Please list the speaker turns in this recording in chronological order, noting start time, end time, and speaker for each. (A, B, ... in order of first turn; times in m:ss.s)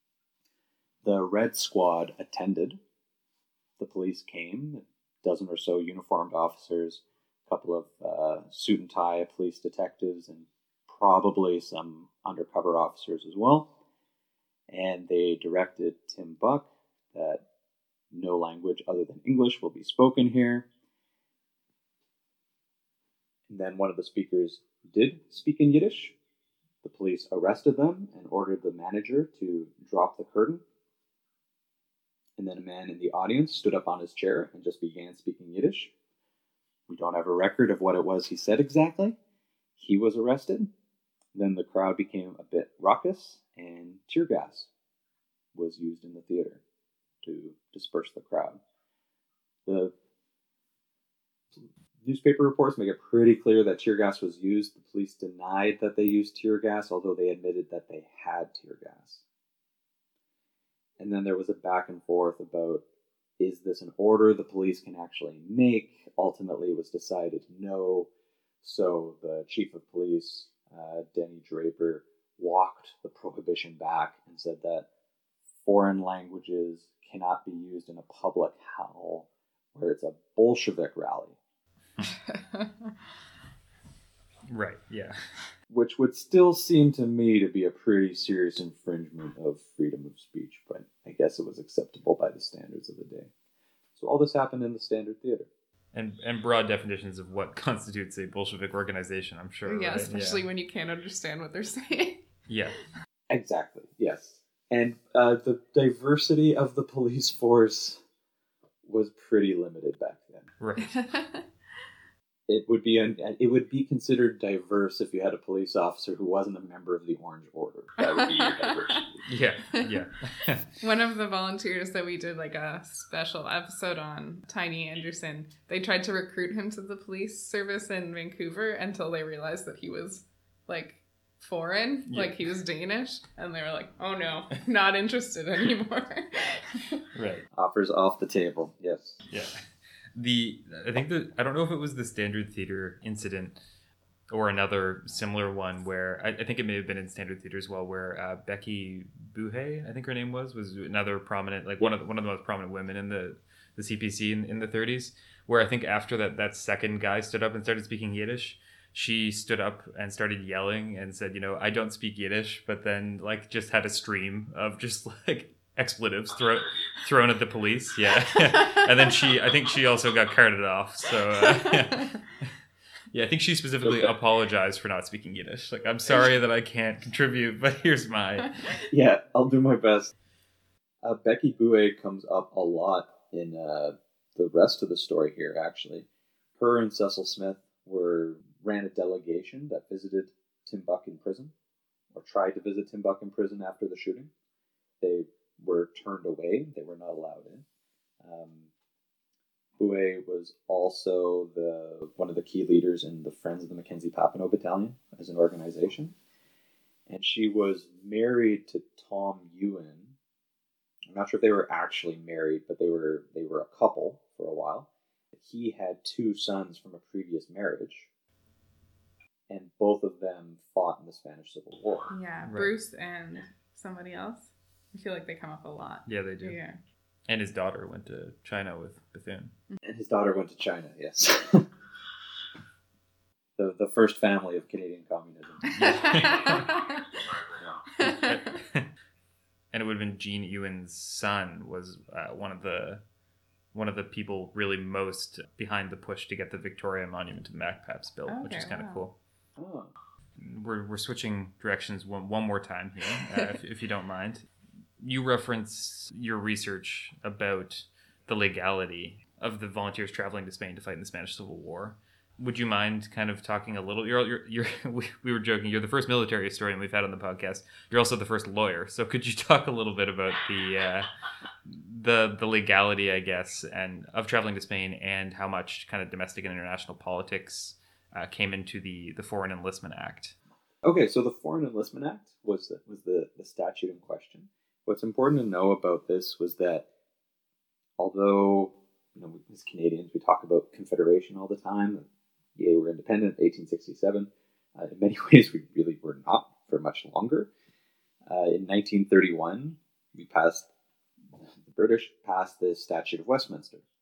0:01.0-0:02.8 A
0:03.8-0:13.7 A
0:14.7-0:17.4 A
0:18.1-0:20.7 A
0:23.5-0:26.1 A
0:26.8-0:30.6 A
0:32.4-0:35.9 A
0:36.9-0:39.2 A
0:39.8-0:40.7 A
0:41.3-0:44.7 A
0:45.5-0:46.6 A
0:47.2-0:48.6 A
0:49.6-0:49.9 A
0:52.0-0:59.2 A
1:01.0-1:02.8 A
1:03.4-1:08.1 A
1:08.6-1:14.8 A
1:15.6-1:21.4 A
1:22.2-1:22.9 B
1:24.5-1:25.2 C
1:25.7-1:33.3 A
1:34.0-1:35.5 A
1:35.9-1:40.4 C
1:39.6-1:42.3 B
1:42.5-1:42.8 C
1:43.3-1:48.0 A
1:48.8-1:50.5 A
1:50.6-1:51.0 C
1:50.8-1:51.5 B
1:52.5-1:59.2 A
1:58.0-1:59.0 B
1:59.3-2:00.7 C
2:00.8-2:17.0 B
2:12.1-2:12.4 C
2:17.1-2:17.5 C
2:17.5-2:19.2 A
2:19.3-2:19.6 C
2:20.1-2:23.6 C
2:24.3-2:52.5 C
2:48.3-2:49.1 B
2:51.3-2:52.0 B
2:53.1-2:58.7 C
2:53.8-2:54.1 A
2:58.9-3:00.1 A
3:01.0-3:06.1 A
3:06.6-3:11.5 A
3:12.1-3:14.3 A
3:15.0-3:17.6 A
3:18.2-3:18.7 A
3:19.8-3:26.1 A
3:27.1-3:30.1 A
3:31.1-3:38.1 A
3:39.5-3:42.1 A
3:42.1-3:46.8 B
3:42.4-3:42.7 C
3:46.1-3:46.6 C
3:47.3-3:49.5 C
3:49.8-3:51.7 A
3:53.6-3:56.5 A
3:55.7-3:57.1 B
3:55.7-3:56.7 C
3:58.0-3:58.6 B
3:58.0-3:58.9 C
3:59.7-4:03.0 C
4:03.7-4:09.1 C
4:08.3-4:09.0 B
4:09.6-4:09.9 A
4:10.4-4:14.4 C
4:13.2-4:13.5 B
4:15.0-4:31.1 C
4:31.6-4:40.3 C
4:40.8-4:46.8 A
4:48.0-4:57.5 A
4:58.3-5:00.7 A
5:01.6-5:03.8 A